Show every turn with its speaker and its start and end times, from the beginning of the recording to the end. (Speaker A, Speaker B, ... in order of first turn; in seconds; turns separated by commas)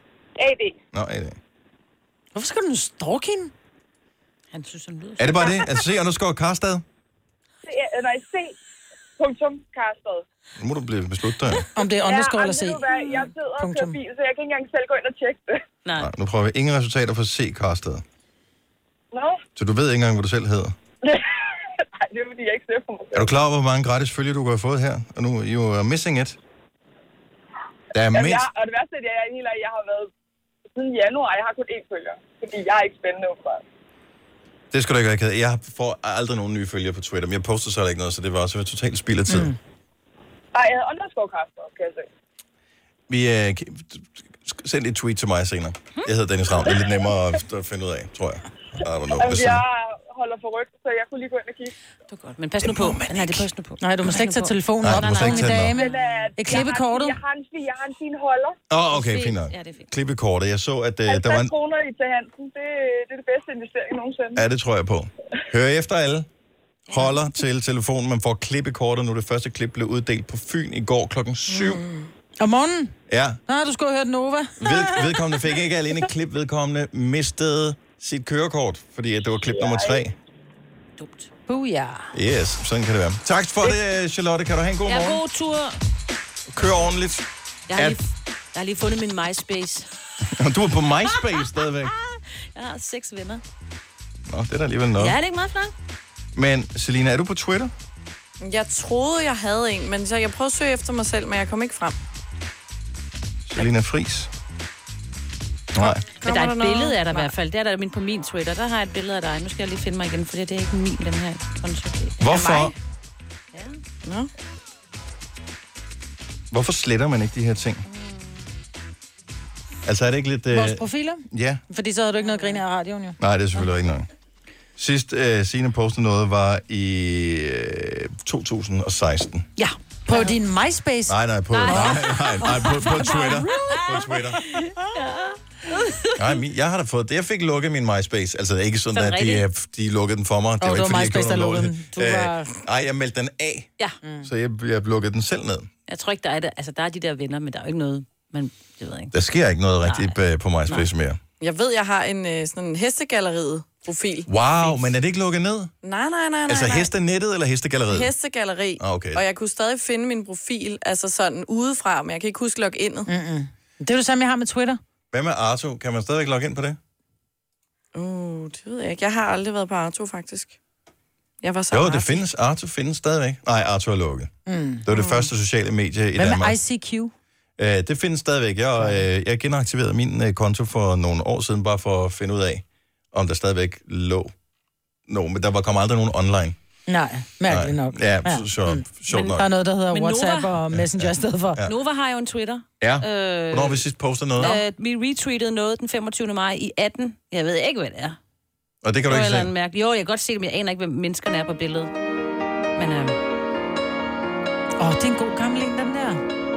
Speaker A: 0.4-0.7, Speaker B: 0.9-1.4, Speaker C: 2.3-3.5, Speaker D: 4.5-5.6, Speaker B: 5.2-6.8, Speaker A: 7.7-8.5, Speaker A: 9.2-10.2, Speaker B: 10.6-11.6, Speaker C: 11.7-12.9, Speaker A: 12.0-15.5, Speaker D: 12.9-13.3, Speaker C: 13.6-14.0, Speaker B: 16.0-18.0, Speaker B: 19.6-20.7, Speaker A: 22.1-23.2, Speaker B: 23.1-26.4, Speaker B: 27.9-28.5, Speaker A: 28.1-30.1, Speaker A: 30.8-33.6, Speaker B: 34.7-39.5, Speaker C: 39.3-39.6, Speaker A: 40.5-42.0, Speaker B: 43.1-49.6, Speaker A: 49.2-51.7, Speaker D: 52.1-56.3, Speaker B: 52.6-53.4, Speaker C: 53.8-57.2, Speaker B: 54.8-55.7, Speaker A: 55.8-58.5, Speaker B: 58.7-61.5, Speaker D: 58.9-59.9, Speaker A: 61.1-64.4, Speaker B: 64.3-66.3, Speaker B: 66.9-71.8, Speaker E: 71.5-72.1, Speaker C: 72.4-72.9, Speaker B: 73.1-73.4, Speaker C: 73.5-75.1, Speaker B: 74.6-80.2, Speaker D: 81.0-81.3, Speaker C: 81.5-82.1, Speaker B: 82.1-85.2, Speaker D: 84.9-85.8, Speaker B: 86.5-88.0, Speaker D: 87.7-89.9, Speaker B: 90.3-91.9, Speaker D: 92.1-93.4, Speaker B: 94.3-95.2, Speaker D: 95.0-95.7, Speaker B: 96.3-97.7, Speaker E: 98.4-102.0, Speaker B: 103.5-104.3, Speaker B: 105.7-106.0, Speaker E: 105.8-107.3, Speaker D: 106.2-112.7, Speaker B: 112.2-112.7, Speaker D: 113.5-113.8, Speaker B: 116.5-117.8, Speaker D: 117.9-118.5, Speaker B: 119.8-121.6, Speaker C: 120.5-123.2, Speaker D: 122.2-122.6, Speaker B: 123.2-124.1, Speaker B: 124.8-129.5, Speaker C: 129.6-133.8, Speaker B: 131.1-134.4, Speaker D: 131.5-136.3, Speaker B: 136.2-143.7, Speaker D: 138.9-139.4, Speaker C: 140.6-142.6, Speaker C: 144.0-144.3, Speaker B: 144.2-145.7, Speaker D: 145.9-149.1, Speaker B: 149.1-151.2, Speaker D: 149.8-150.1, Speaker E: 151.4-154.3, Speaker B: 154.3-155.7, Speaker E: 155.8-156.9, Speaker B: 156.5-158.1, Speaker E: 157.9-163.1, Speaker B: 158.8-159.2, Speaker C: 163.1-164.8, Speaker B: 165.1-166.8, Speaker E: 167.9-170.6, Speaker E: 171.4-172.2, Speaker B: 171.7-174.3, Speaker C: 174.5-174.8, Speaker B: 174.8-176.6, Speaker C: 176.2-177.1, Speaker B: 177.6-184.3, Speaker B: 185.1-186.6, Speaker C: 186.9-191.6, Speaker B: 187.5-189.5, Speaker D: 189.9-190.6, Speaker B: 190.7-191.7, Speaker D: 191.6-193.8, Speaker B: 192.8-194.6, Speaker D: 194.4-198.2, Speaker B: 198.8-199.5, Speaker D: 199.1-201.9, Speaker D: 202.8-203.2, Speaker C: 204.8-206.2